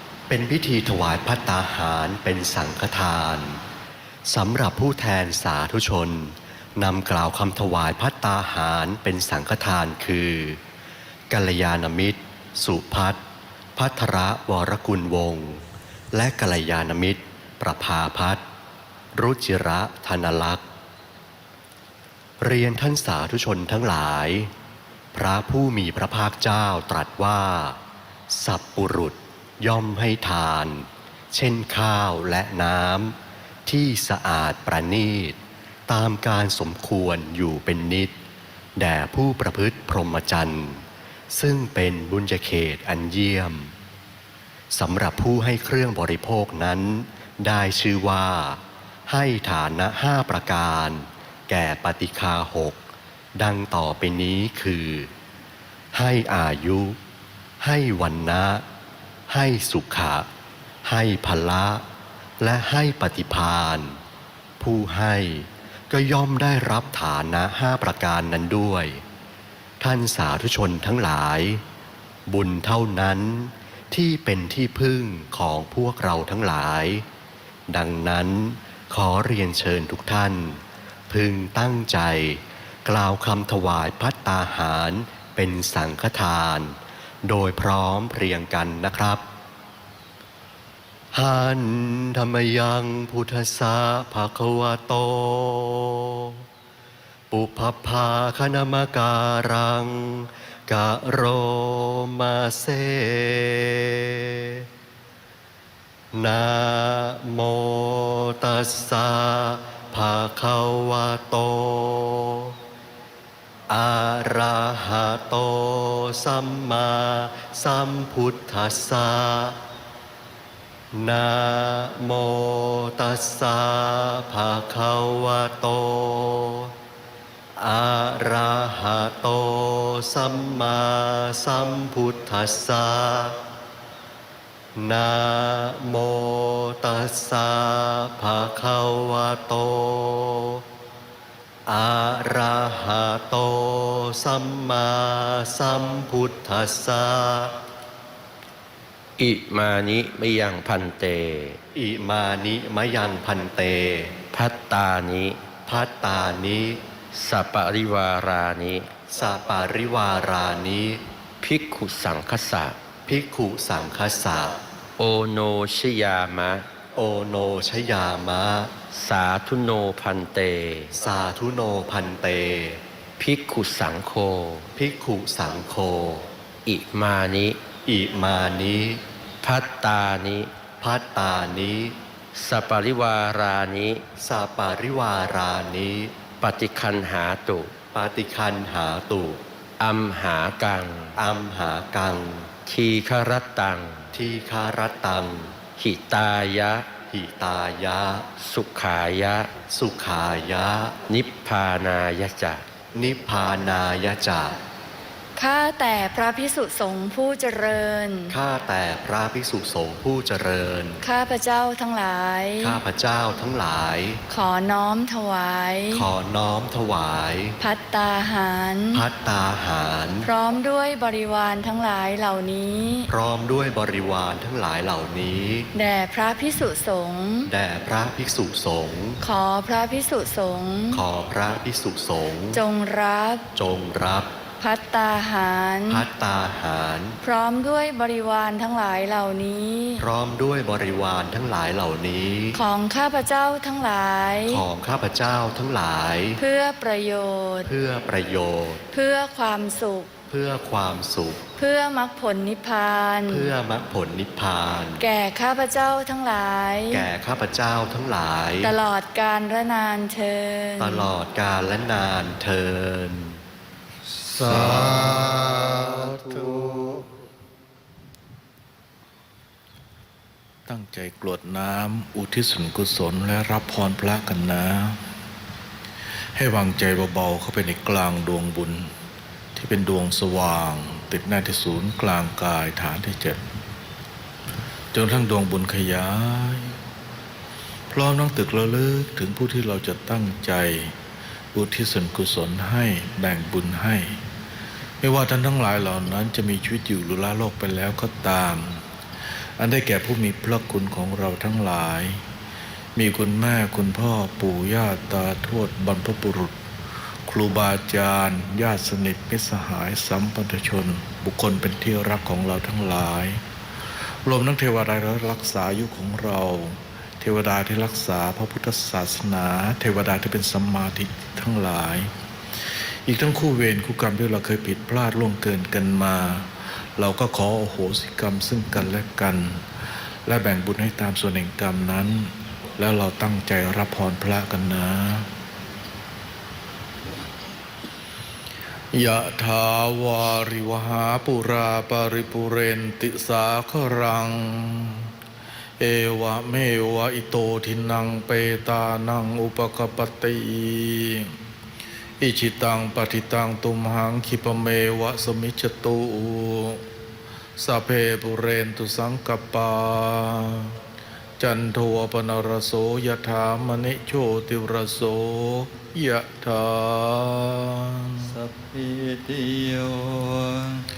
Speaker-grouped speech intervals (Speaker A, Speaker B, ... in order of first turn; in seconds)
Speaker A: 0.3-3.6, 4.3-10.6, 11.3-13.2, 13.8-18.4, 19.1-20.6, 22.4-24.5, 25.1-27.8, 28.3-38.2, 38.8-43.7, 44.7-52.8, 53.4-55.1, 55.9-57.0, 57.6-58.6, 59.3-60.3, 60.8-61.8, 62.4-64.0, 64.6-69.0, 69.8-71.6, 72.3-77.0, 77.7-89.2, 91.1-96.4, 97.3-104.6, 106.1-112.6, 113.7-119.6, 120.9-126.7, 127.6-133.4, 134.8-140.6, 141.7-147.6, 151.8-154.2, 155.7-156.8, 159.1-161.0, 163.1-164.6, 166.9-168.7, 170.9-172.8, 174.8-176.3, 177.8-179.0, 180.8-182.0, 184.2-186.2, 187.9-189.4, 191.2-192.5, 194.1-195.6, 197.1-198.3, 199.7-201.0, 202.9-204.6, 208.3-211.0, 212.6-214.2, 215.9-217.6, 218.9-220.3, 223.1-225.7, 227.5-229.2, 230.9-232.6, 233.5-234.3, 235.9-237.2, 240.0-242.6, 244.5-246.4, 247.7-248.8, 250.3-251.4, 253.3-255.0, 256.9-258.7, 260.8-263.4
Speaker B: 149.2-151.6, 154.3-155.4, 157.1-158.9, 161.4-162.8, 165.0-166.7, 168.9-170.9, 173.2-174.7, 176.7-177.6, 179.4-180.5, 182.3-184.0, 186.4-187.7, 189.8-191.2, 192.7-194.1, 195.8-196.9, 198.4-199.5, 201.1-202.7
Speaker C: 205.3-208.4, 211.0-212.8, 214.3-216.1, 217.6-219.0, 220.2-223.1, 225.8-227.5, 229.2-231.0, 232.5-233.5, 234.6-236.0, 237.2-240.1, 242.5-244.7, 246.4-247.7, 248.9-250.1, 251.6-253.5, 255.0-257.1, 258.6-261.1
Speaker D: 264.3-267.0, 270.7-275.0, 276.4-278.9, 279.6-283.4, 284.9-286.8, 287.9-290.9, 291.5-294.2, 295.0-298.8, 299.6-302.2, 302.9-306.6, 307.3-313.4, 314.2-322.1, 323.1-329.6, 330.2-335.3, 338.9-345.1, 345.8-351.4, 352.2-356.8, 357.6-360.8, 361.4-368.4
Speaker E: 368.7-370.8